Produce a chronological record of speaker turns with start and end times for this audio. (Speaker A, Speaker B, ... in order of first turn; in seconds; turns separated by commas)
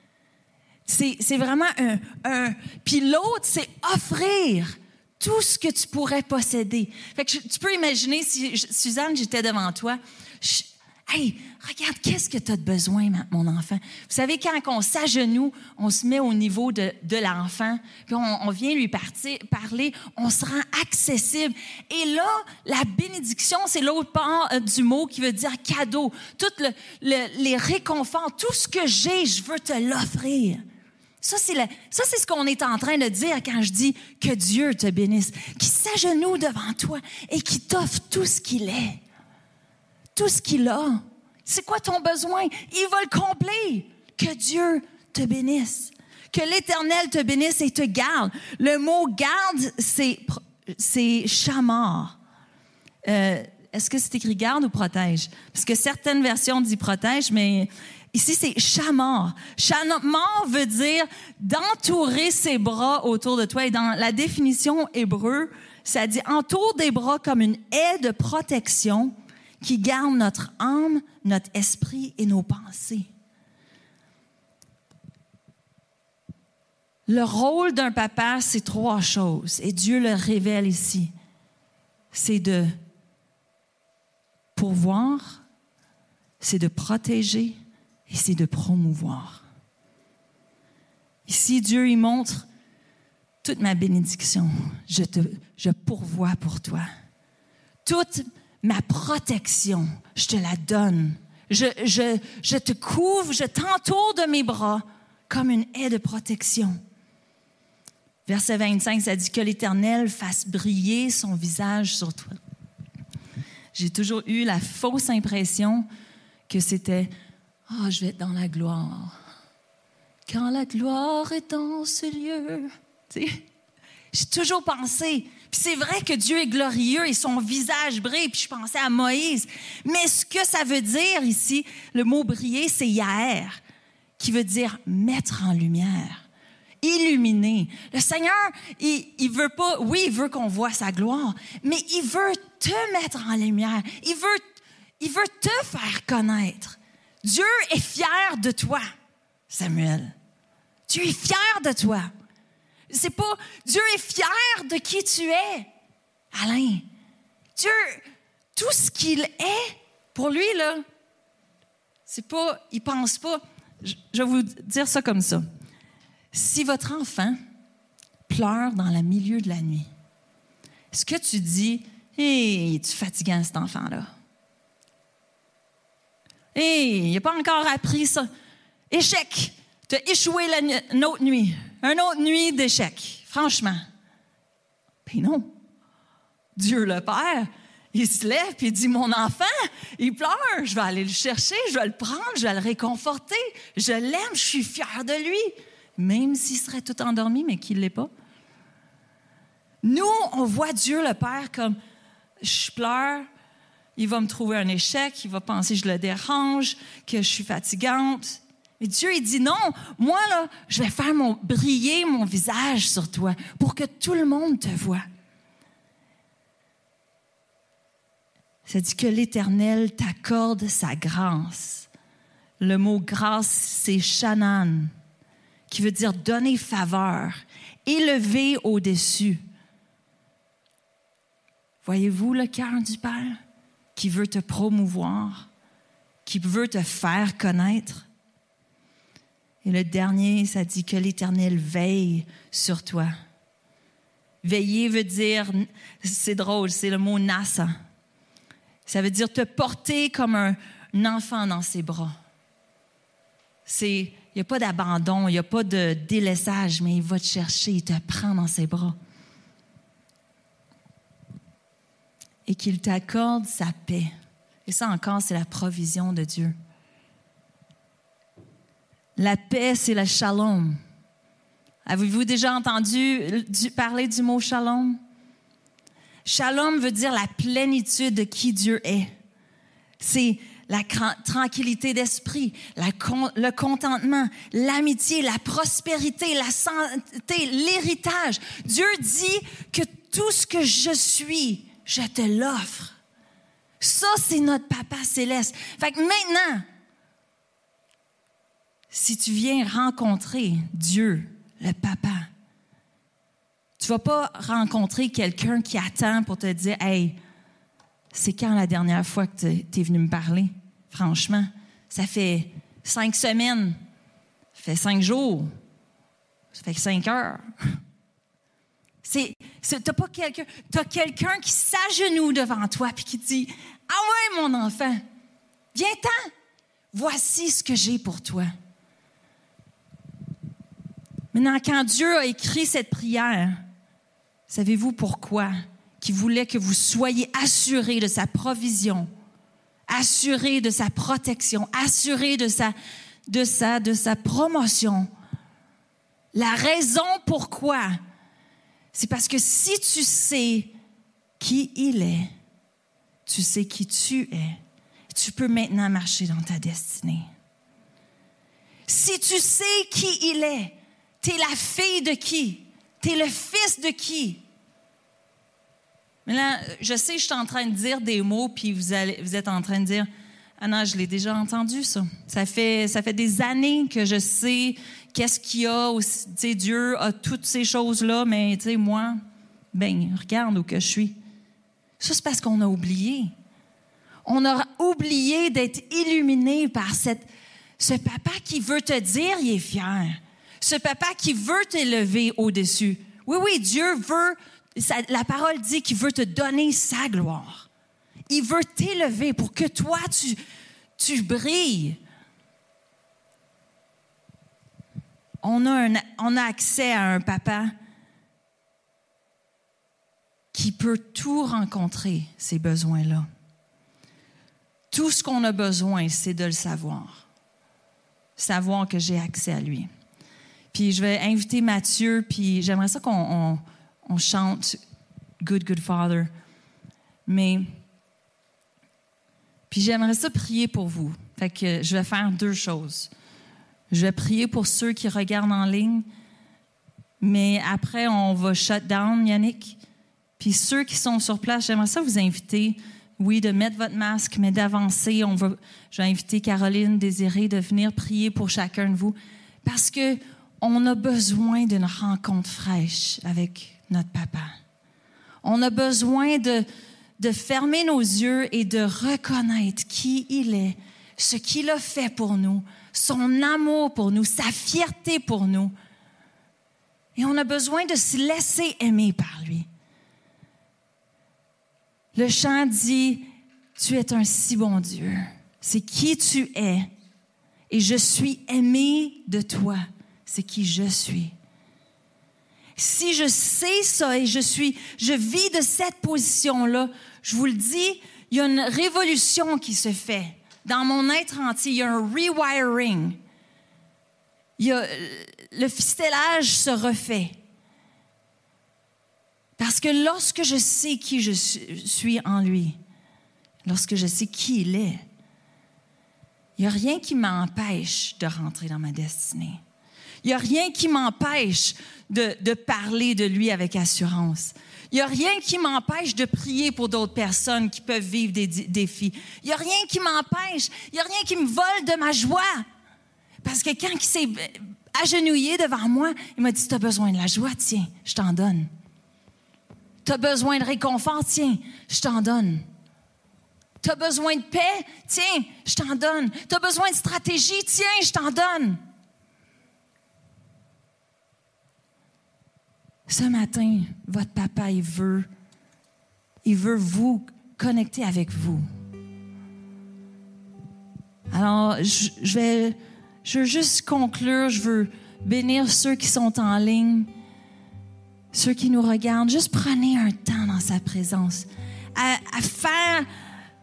Speaker A: 0.9-30.6, Speaker A: 31.2-39.0, Speaker A: 40.1-52.1, Speaker A: 53.0-73.1, Speaker A: 77.1-81.1, Speaker A: 82.1-82.7, Speaker A: 84.5-85.4, Speaker A: 86.4-89.4, Speaker A: 91.2-92.5, Speaker A: 93.4-96.9, Speaker A: 97.8-106.8, Speaker A: 108.2-112.4, Speaker A: 113.7-115.9, Speaker A: 116.5-117.1, Speaker A: 117.7-119.2, Speaker A: 120.3-123.4, Speaker A: 124.1-133.6, Speaker A: 134.2-136.2, Speaker A: 136.8-144.4, Speaker A: 145.0-148.8, Speaker A: 149.5-150.1, Speaker A: 150.9-152.1, Speaker A: 152.9-155.7, Speaker A: 156.3-156.8, Speaker A: 157.6-158.0, Speaker A: 158.6-160.8, Speaker A: 162.1-165.4, Speaker A: 166.3-167.4, Speaker A: 168.3-169.9, Speaker A: 170.9-174.1, Speaker A: 176.5-178.3, Speaker A: 178.9-183.8, Speaker A: 185.1-185.5, Speaker A: 186.6-198.1, Speaker A: 199.8-201.8, Speaker A: 202.4-203.3, Speaker A: 204.0-215.0, Speaker A: 218.7-221.9, Speaker A: 222.6-224.9, Speaker A: 225.7-229.4, Speaker A: 231.8-233.4, Speaker A: 233.9-235.5, Speaker A: 236.2-238.1, Speaker A: 239.6-243.1, Speaker A: 244.4-247.7, Speaker A: 248.9-252.1, Speaker A: 253.7-258.9, Speaker A: 262.5-264.1, Speaker A: 264.6-266.5, Speaker A: 269.2-270.8, Speaker A: 271.9-275.0, Speaker A: 276.2-279.1, Speaker A: 280.0-293.0, Speaker A: 293.8-296.6, Speaker A: 298.9-302.3, Speaker A: 303.8-307.2, Speaker A: 308.1-313.8, Speaker A: 314.5-315.5, Speaker A: 316.5-317.4, Speaker A: 319.0-325.0, Speaker A: 325.7-326.3, Speaker A: 326.9-328.5, Speaker A: 331.3-333.6, Speaker A: 334.5-339.1, Speaker A: 339.9-342.7, Speaker A: 343.3-345.1, Speaker A: 346.3-348.0, Speaker A: 348.9-350.7, Speaker A: 351.4-352.3, Speaker A: 353.3-354.6, Speaker A: 355.1-357.3, Speaker A: 358.9-364.4, Speaker A: 366.2-370.1, Speaker A: 370.6-379.2, Speaker A: 379.7-381.2, Speaker A: 382.0-383.3, Speaker A: 384.2-397.7, Speaker A: 398.3-400.4, Speaker A: 401.0-402.0, Speaker A: 405.4-407.7, Speaker A: 410.5-413.3, Speaker A: 414.9-417.2, Speaker A: 418.4-419.9, Speaker A: 420.7-424.8, Speaker A: 425.4-426.3, Speaker A: 427.2-427.7, Speaker A: 429.7-433.1, Speaker A: 433.9-436.1, Speaker A: 437.2-439.8, Speaker A: 440.4-454.5, Speaker A: 455.4-456.6, Speaker A: 457.2-465.7, Speaker A: 467.1-469.7, Speaker A: 472.1-476.9, Speaker A: 477.7-481.3, Speaker A: 482.8-493.2, Speaker A: 494.6-497.4, Speaker A: 499.6-502.8, Speaker A: 503.6-505.0, Speaker A: 506.6-509.6, Speaker A: 510.2-522.6, Speaker A: 523.4-528.7, Speaker A: 530.0-532.6, Speaker A: 533.8-538.8, Speaker A: 543.1-545.3, Speaker A: 546.4-548.6, Speaker A: 551.3-557.1, Speaker A: 558.3-563.1